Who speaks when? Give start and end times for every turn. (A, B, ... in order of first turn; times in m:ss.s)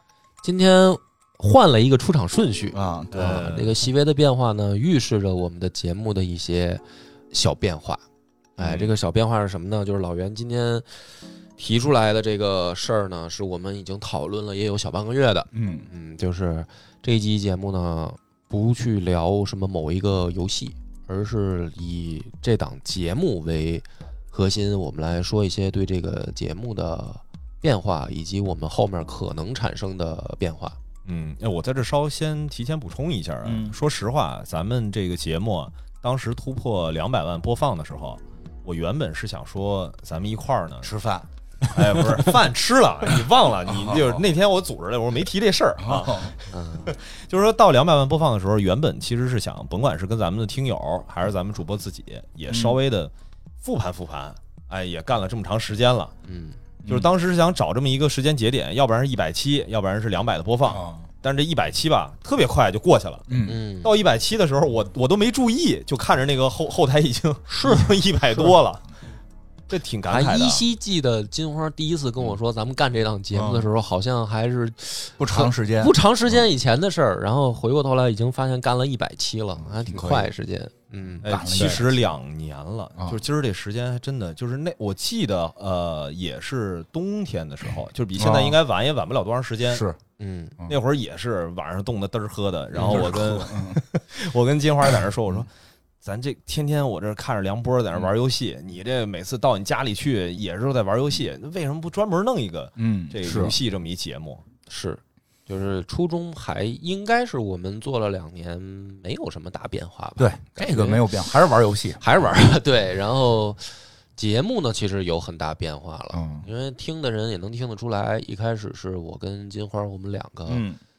0:00.4-0:08.0 A
0:02.7-0:03.5 B
0:03.1-0:03.8 C
0:08.6-0:10.9 A
0:08.6-0:08.9 C
0:11.6-0:30.8 A
0:15.5-0:15.9 B
0:31.0-0:40.9 C
0:33.4-0:33.8 B
0:40.8-0:42.2 B
0:41.6-0:53.1 C
0:43.7-0:44.2 B
0:45.8-0:46.3 B
0:46.5-0:46.9 A
0:52.5-0:52.8 B
0:53.6-0:56.1 C
0:56.2-0:56.6 A
0:56.8-0:57.1 B
0:56.8-1:08.8 C
1:00.7-1:01.0 B
1:03.3-1:03.6 B
1:03.4-1:03.9 A
1:07.5-1:07.9 A
1:09.7-1:10.6 C
1:10.1-1:21.2 A
1:13.3-1:13.7 B
1:15.2-1:15.9 B
1:19.6-1:20.3 B
1:21.2-1:29.8 C
1:21.2-1:22.0 B
1:28.2-1:28.6 B
1:29.7-1:30.0 B
1:30.2-1:30.6 A
1:30.7-1:35.5 C
1:32.7-1:33.8 B
1:36.0-1:44.4 C
1:42.8-1:43.6 B
1:44.7-1:51.1 A
1:50.2-1:52.0 B
1:52.0-2:00.6 A
1:56.1-1:56.4 B
2:00.5-2:00.8 B